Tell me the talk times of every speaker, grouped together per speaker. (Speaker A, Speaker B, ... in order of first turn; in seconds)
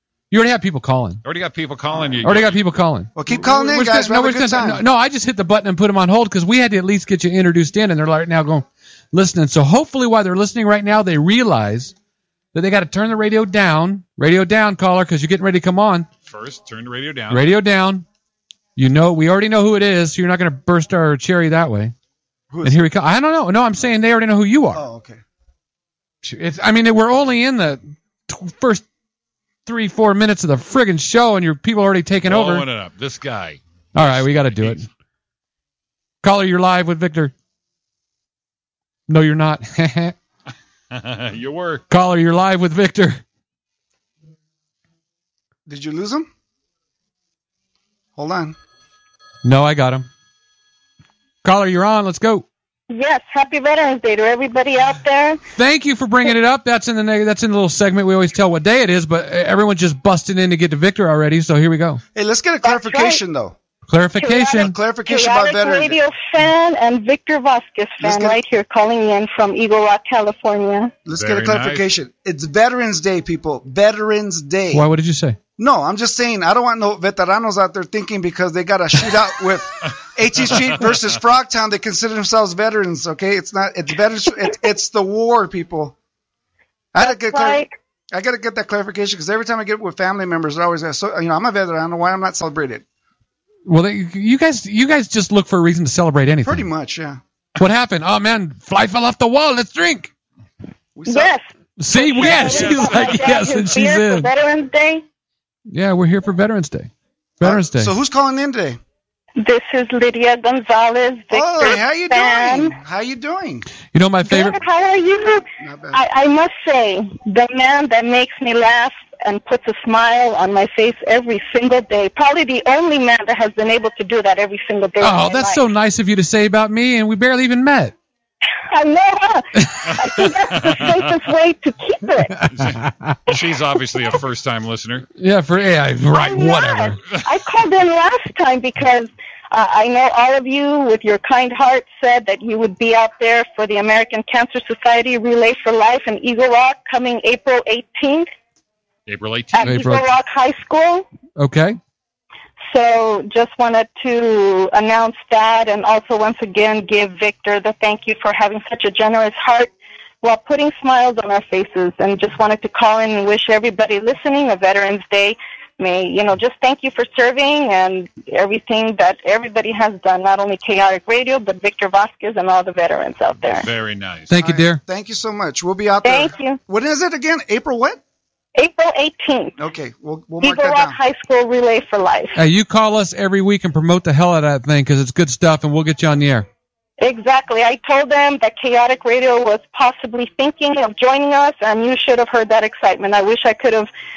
Speaker A: 0.3-1.2, 2.2-11.9, 12.5-16.1, 17.3-18.0, 18.8-21.9, 22.6-24.8, 26.2-28.8, 29.6-32.6, 33.9-34.8, 36.2-37.3, 39.1-40.1, 41.9-43.2, 49.4-50.1, 51.4-52.5, 55.5-62.0, 63.9-64.7, 74.7-75.4, 93.7-96.6, 97.6-100.1, 101.8-104.3, 105.7-107.9, 113.9-114.6, 125.0-127.9, 129.6-129.9, 132.3-133.2, 135.2-137.0, 149.6-150.1, 151.4-151.8, 174.3-174.8, 182.3-186.5
Speaker B: 1.2-2.6, 16.3-17.4, 32.2-34.8, 40.9-41.8, 71.2-71.8, 102.7-103.1, 130.7-131.2, 132.5-135.1, 149.1-149.8, 173.5-174.3
Speaker C: 3.1-4.8, 22.5-22.9, 24.7-25.2, 45.6-46.3, 48.1-48.5, 62.1-63.5, 64.5-66.0, 68.0-68.4, 71.0-74.9, 75.6-86.0, 86.9-92.8, 96.4-97.2, 100.9-101.3, 102.0-102.8, 107.4-108.8, 111.3-113.7, 115.6-116.0, 174.3-178.0, 179.6-181.0
Speaker D: 52.9-55.4, 62.6-63.2, 64.2-70.9, 87.0-87.7, 101.1-105.0, 109.4-112.7, 114.3-125.6, 128.7-132.4, 136.1-148.3, 149.5-151.1, 152.7-173.7, 176.0-176.6, 178.6-179.5, 180.4-182.4, 187.0-193.9